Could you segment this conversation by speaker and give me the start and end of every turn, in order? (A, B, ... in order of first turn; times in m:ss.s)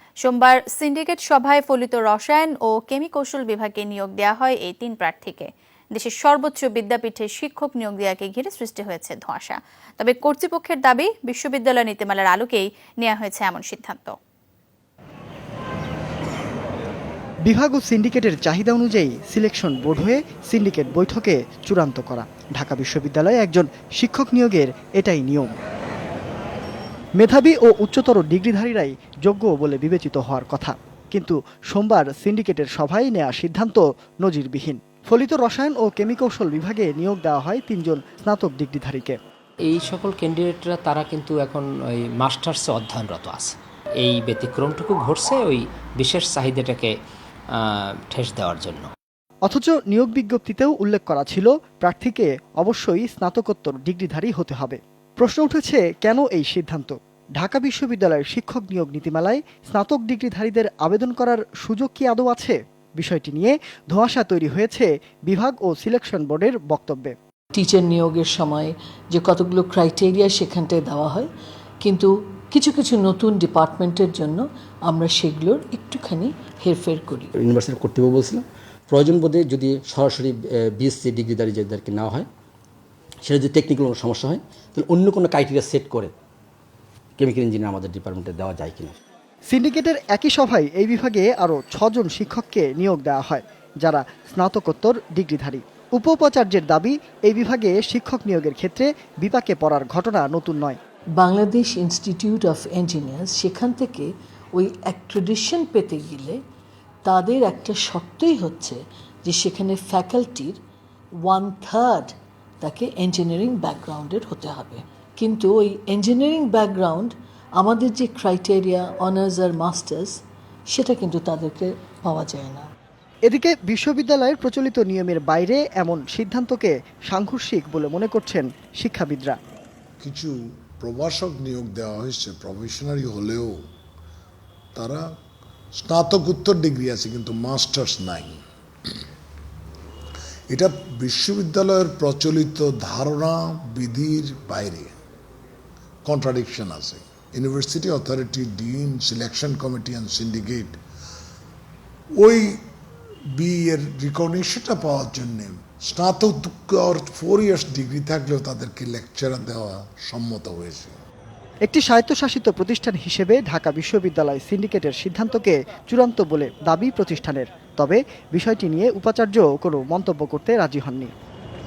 0:00.2-0:14.1 A
0:17.4-0:25.5 B
0:27.2-0:39.2 B
0:39.6-0:46.9 C
0:47.6-0:48.9 C
0:49.4-1:07.1 B
1:07.5-1:11.3 D
1:11.8-1:17.3 D
1:17.4-1:22.3 E
1:23.2-1:26.1 E
1:27.2-1:29.0 E
1:29.5-1:40.8 B
1:41.2-1:46.4 D
1:47.0-1:50.6 D
1:51.2-2:00.2 D
2:00.7-2:02.7 D
2:03.2-2:09.4 B
2:10.0-2:13.6 F
2:14.7-2:15.0 F
2:15.8-2:18.4 F
2:20.5-2:24.9 F
2:26.0-2:30.8 F
2:32.2-2:32.6 F
2:33.4-2:40.9 F
2:41.6-2:51.1 B